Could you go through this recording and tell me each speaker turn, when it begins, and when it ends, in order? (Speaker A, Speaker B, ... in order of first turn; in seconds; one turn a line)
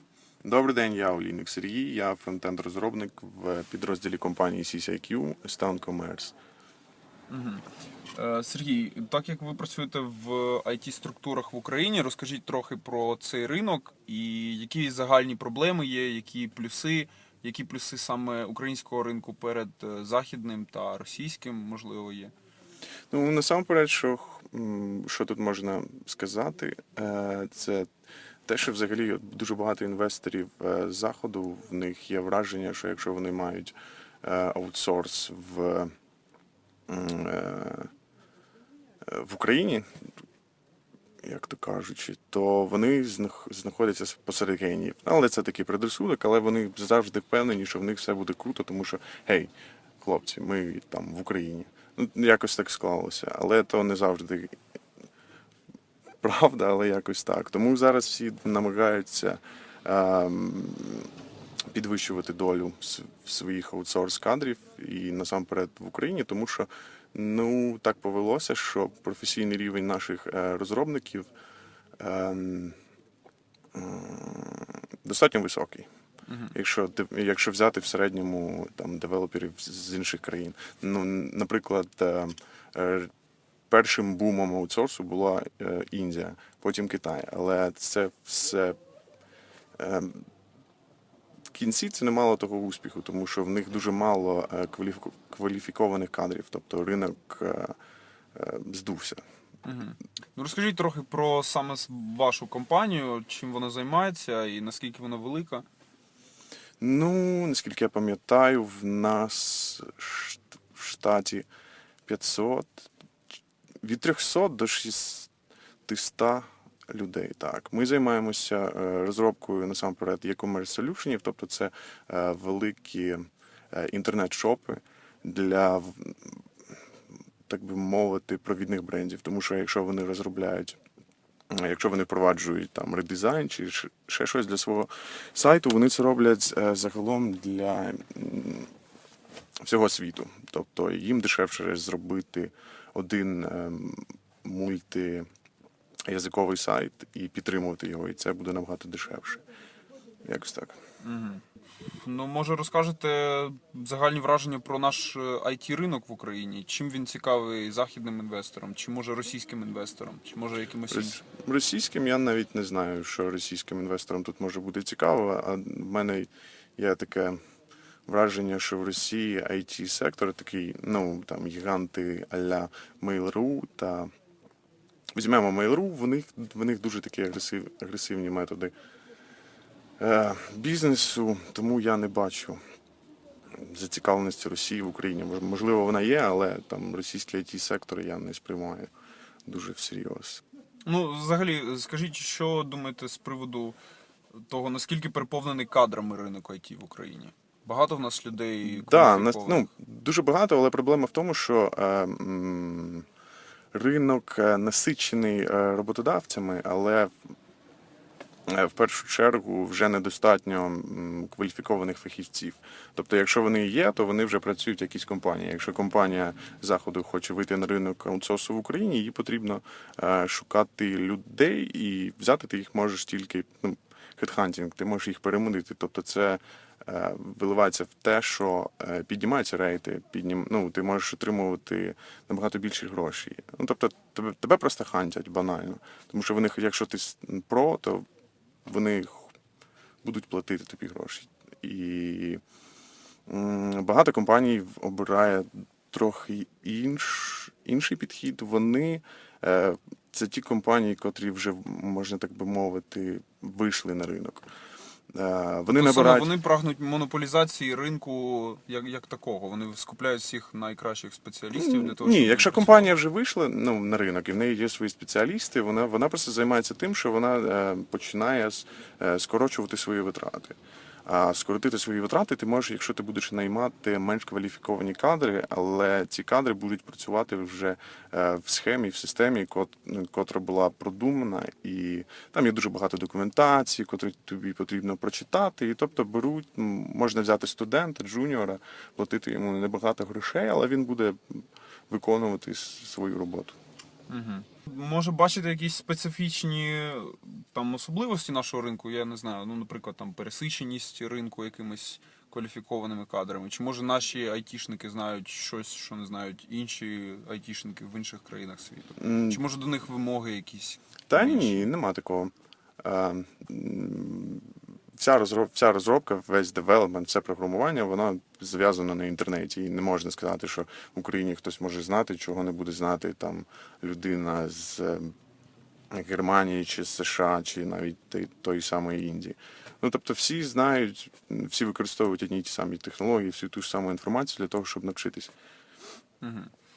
Speaker A: 0.4-6.3
Speaker B: 7.3-22.3
Speaker A: 23.1-27.9
Speaker A: 28.4-35.9
Speaker A: 36.9-37.9
Speaker A: 39.0-40.0
Speaker A: 41.2-54.5
Speaker A: 56.2-61.1
Speaker A: 61.7-71.3
Speaker A: 72.0-72.8
Speaker A: 73.7-75.9
Speaker B: 76.3-76.5
Speaker A: 76.5-83.1
Speaker A: 83.7-88.8
Speaker A: 89.8-90.3
Speaker A: 91.5-97.7
Speaker A: 98.3-99.2
Speaker B: 99.6-105.7
Speaker A: 106.8-111.5
Speaker A: 112.0-112.9
Speaker A: 113.8-115.3
Speaker A: 115.8-126.4
Speaker A: 127.5-130.8
Speaker A: 131.5-138.7
Speaker A: 139.6-145.2
Speaker A: 146.1-149.4
Speaker A: 150.2-150.8
Speaker B: 151.0-161.2
Speaker A: 160.9-167.4
Speaker A: 168.1-174.1
Speaker A: 175.1-178.7
Speaker A: 180.0-182.6
Speaker A: 183.5-188.9
Speaker A: 189.4-190.4
Speaker B: 190.8-193.8
Speaker B: 194.3-199.7
Speaker A: 198.7-203.1
Speaker A: 203.7-207.1
Speaker A: 208.5-238.0
Speaker A: 238.6-239.3
Speaker A: 240.0-242.4
Speaker A: 243.3-254.4
Speaker A: 255.1-256.3
Speaker B: 255.7-262.9
Speaker A: 261.5-293.6
Speaker B: 294.1-311.7
Speaker A: 309.0-309.4
Speaker A: 311.1-325.1
Speaker A: 325.9-335.3
Speaker B: 336.2-336.5